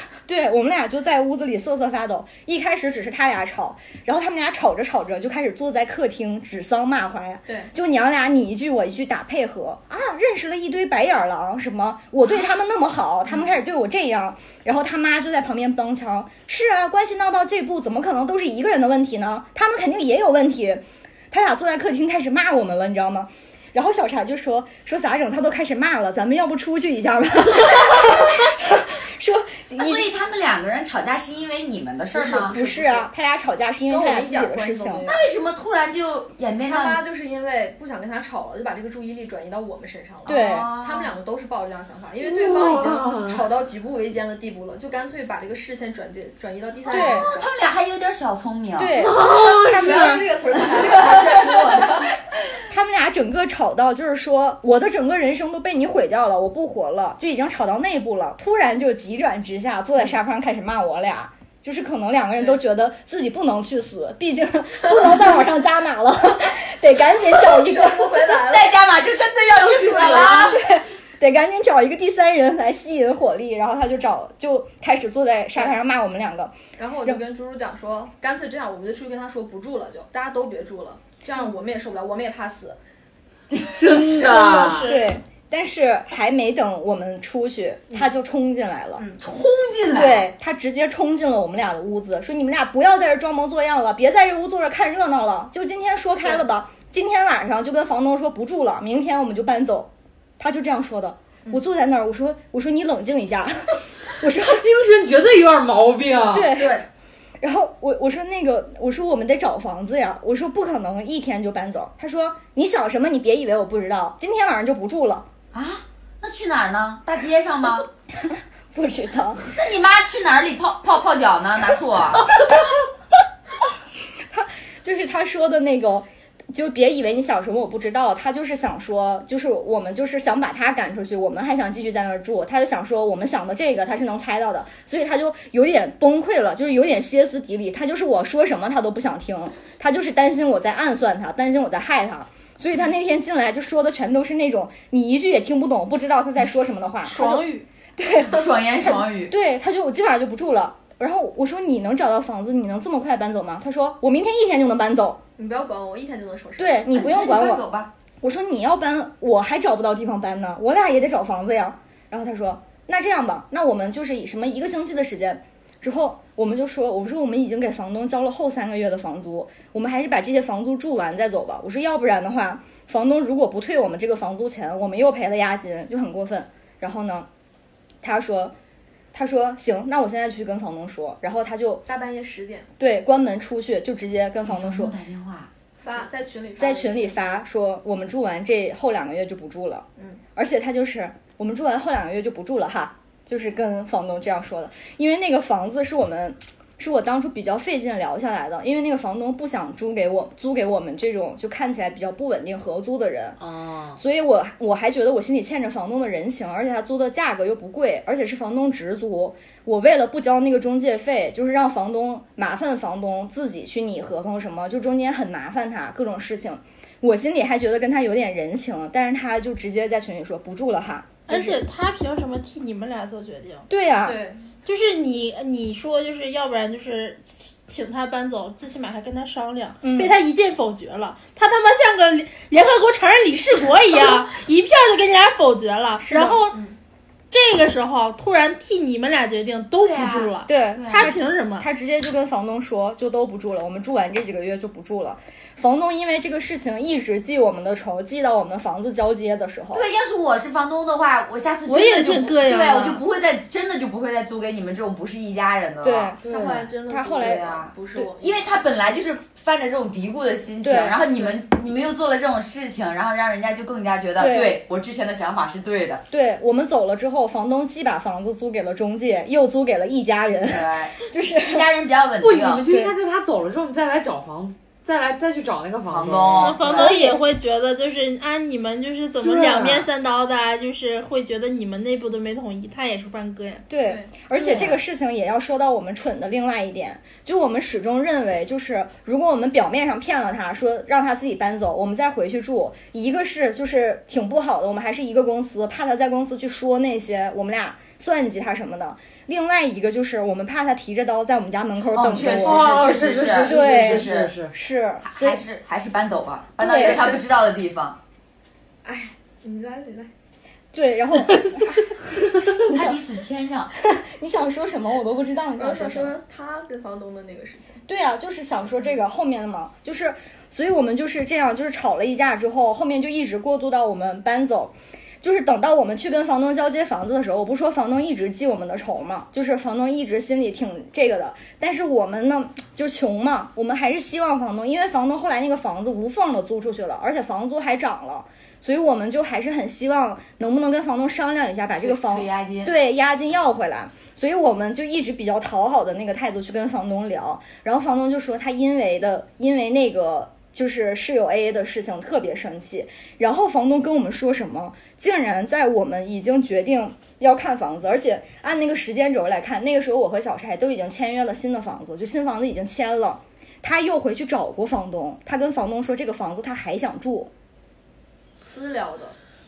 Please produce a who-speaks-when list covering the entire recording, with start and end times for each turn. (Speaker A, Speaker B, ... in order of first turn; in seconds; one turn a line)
Speaker A: 0.2-30.1
Speaker B: 29.7-32.5
Speaker C: 32.1-33.1
Speaker A: 32.5-35.1
Speaker C: 33.9-35.2
Speaker B: 35.0-37.0
Speaker C: 36.6-47.5
Speaker B: 40.2-41.2
Speaker A: 40.2-40.7
Speaker D: 42.2-43.4
Speaker B: 46.9-49.1
Speaker A: 46.9-47.3
Speaker A: 48.8-50.2
Speaker D: 49.0-50.3
Speaker C: 49.4-52.1
Speaker B: 50.0-52.1
Speaker A: 52.7-68.3
Speaker C: 67.2-68.8
Speaker B: 68.4-70.6
Speaker C: 69.6-70.5
Speaker A: 70.2-77.2
Speaker C: 76.8-82.8
Speaker D: 83.6-84.9
Speaker E: 84.2-85.1
Speaker A: 84.8-89.0
Speaker C: 89.0-89.2
Speaker B: 89.2-90.3
Speaker A: 89.9-104.6
Speaker D: 104.4-106.5
Speaker A: 106.3-106.8
Speaker C: 106.5-106.9
Speaker A: 107.4-115.3
Speaker B: 115.5-117.9
Speaker A: 118.7-119.5
Speaker B: 119.5-122.2
Speaker A: 124.3-155.2
Speaker E: 147.1-147.7
Speaker B: 148.2-149.3
Speaker C: 155.4-156.9
Speaker A: 156.6-157.6
Speaker B: 156.9-157.9
Speaker A: 158.2-177.3
Speaker A: 178.0-178.5
Speaker A: 179.1-181.8
Speaker C: 181.8-182.7
Speaker A: 182.8-184.9
Speaker B: 184.4-185.5
Speaker C: 185.8-187.3
Speaker A: 186.6-203.4
Speaker D: 203.4-204.0
Speaker A: 204.0-221.6
Speaker E: 221.3-223.7
Speaker A: 223.7-224.2
Speaker C: 224.0-224.5
Speaker E: 224.6-236.6
Speaker A: 229.8-230.2
Speaker A: 236.0-236.4
Speaker E: 237.3-241.7
Speaker B: 239.8-241.1
Speaker A: 240.4-249.8
Speaker B: 249.7-266.0
Speaker E: 251.7-253.0
Speaker A: 255.8-256.2
Speaker C: 256.3-258.4
Speaker D: 256.3-256.6
Speaker A: 256.9-258.1
Speaker A: 260.6-261.0
Speaker C: 261.1-261.4
Speaker A: 264.2-264.6
Speaker A: 266.1-271.6
Speaker B: 270.4-272.6
Speaker D: 272.2-276.7
Speaker A: 272.7-272.9
Speaker B: 275.9-277.0
Speaker E: 276.4-283.6
Speaker A: 276.7-277.2
Speaker D: 279.2-279.9
Speaker A: 283.7-302.8
Speaker C: 283.8-284.1
Speaker B: 301.9-304.3
Speaker D: 302.2-304.5
Speaker A: 303.4-305.4
Speaker B: 305.0-308.0
Speaker A: 306.6-307.1
Speaker C: 306.6-307.2
Speaker C: 308.8-310.1
Speaker A: 310.7-311.8
Speaker A: 312.6-313.0
Speaker B: 312.6-313.7
Speaker A: 313.8-316.1
Speaker C: 315.6-317.8
Speaker A: 317.9-367.3
Speaker B: 341.8-342.7
Speaker C: 368.4-369.1